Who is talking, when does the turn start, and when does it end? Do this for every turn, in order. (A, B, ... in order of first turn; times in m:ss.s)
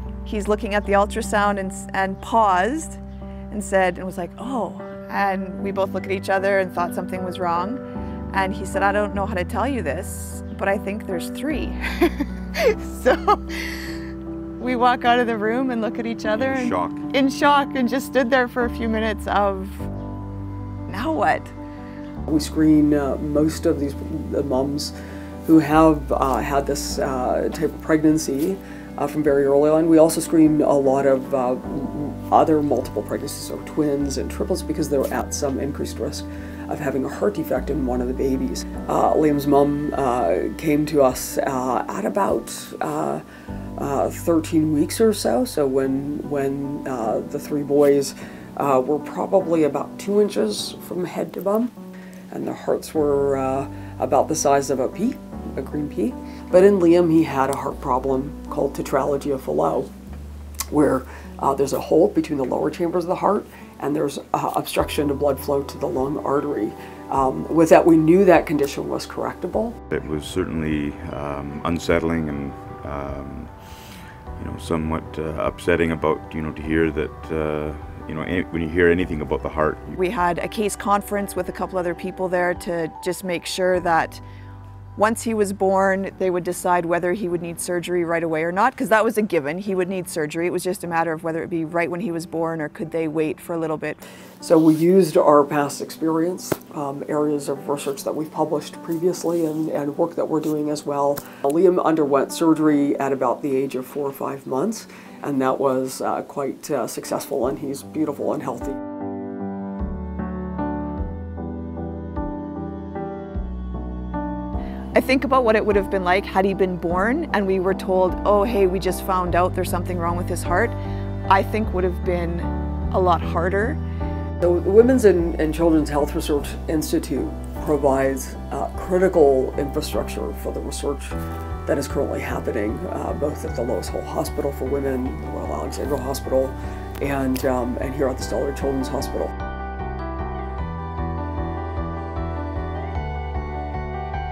0:00.2-0:13.9 A
0:14.6-0:19.9 A
0:16.4-0:17.0 B
0:20.9-0:21.5 A
0:22.2-0:24.9 C
0:25.4-0:43.2 C
0:43.8-0:51.7 C
0:52.3-0:59.9 C
1:00.7-1:09.8 C
1:09.9-1:13.6 B
1:14.4-1:20.0 B
1:20.0-1:24.2 A
1:25.0-1:34.0 A
1:34.4-1:48.8 C
1:54.9-2:00.8 A
2:01.3-2:03.8 A
2:04.4-2:19.3 C